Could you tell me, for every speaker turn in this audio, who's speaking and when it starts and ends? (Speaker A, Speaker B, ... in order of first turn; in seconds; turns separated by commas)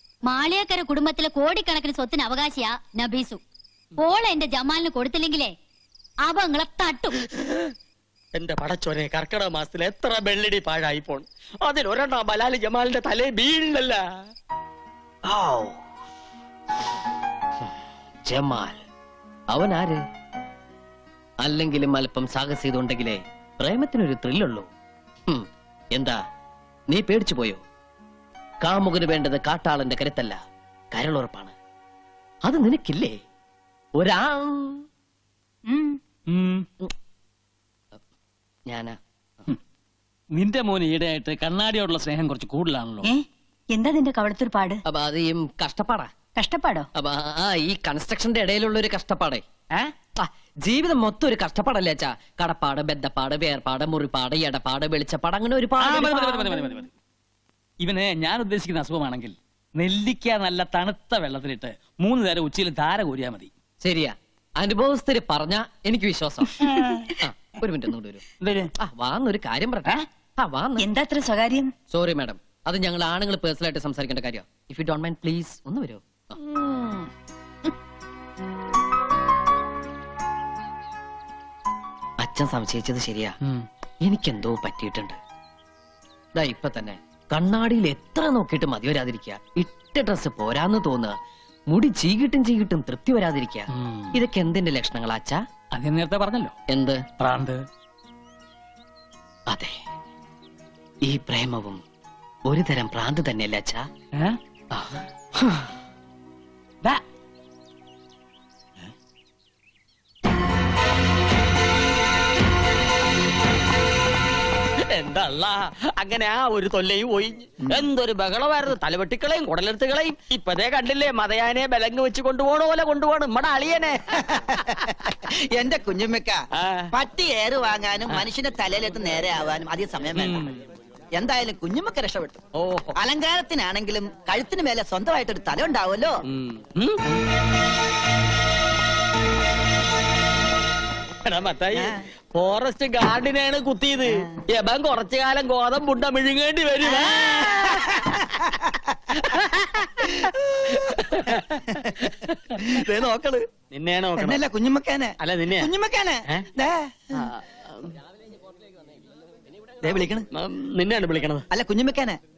Speaker A: 0.3-3.4, Speaker A: 4.0-5.5, Speaker A: 6.3-7.2, Speaker B: 8.3-14.0, Speaker C: 15.2-15.8, Speaker C: 18.3-18.8, Speaker C: 19.5-20.0, Speaker C: 21.4-24.7, Speaker C: 25.3-26.2, Speaker C: 26.9-27.6, Speaker C: 28.6-30.4, Speaker C: 30.9-31.5, Speaker C: 32.4-33.2, Speaker C: 34.0-34.9, Speaker D: 35.7-36.0, Speaker E: 36.3-36.7, Speaker C: 38.7-39.0, Speaker E: 40.3-43.1, Speaker D: 43.7-44.8, Speaker C: 44.9-46.1, Speaker D: 46.4-46.9, Speaker C: 47.0-49.4, Speaker C: 50.2-56.6, Speaker E: 55.8-56.9, Speaker E: 57.8-63.5, Speaker C: 63.8-66.5, Speaker C: 67.2-68.2, Speaker E: 68.4-68.7, Speaker C: 68.8-70.9, Speaker D: 70.8-71.7, Speaker C: 71.9-76.4, Speaker C: 82.2-83.4, Speaker C: 84.0-85.2, Speaker C: 86.3-91.2, Speaker C: 91.7-95.4, Speaker E: 93.8-94.2, Speaker E: 95.7-96.6, Speaker C: 96.7-97.1, Speaker E: 97.2-97.7, Speaker C: 99.5-99.8, Speaker C: 101.0-101.8, Speaker C: 102.5-103.9, Speaker C: 104.7-105.0, Speaker B: 114.9-124.0, Speaker F: 124.4-126.4, Speaker B: 126.6-126.9, Speaker F: 126.9-130.4, Speaker B: 130.2-130.6, Speaker F: 131.2-132.4, Speaker B: 132.6-132.9, Speaker F: 133.0-136.2, Speaker B: 136.3-137.0, Speaker B: 141.3-147.9, Speaker F: 146.8-153.4, Speaker B: 153.7-154.4, Speaker F: 154.2-157.3, Speaker B: 155.2-155.7, Speaker B: 157.2-157.9, Speaker F: 159.8-160.3, Speaker B: 160.3-161.4, Speaker F: 161.5-162.2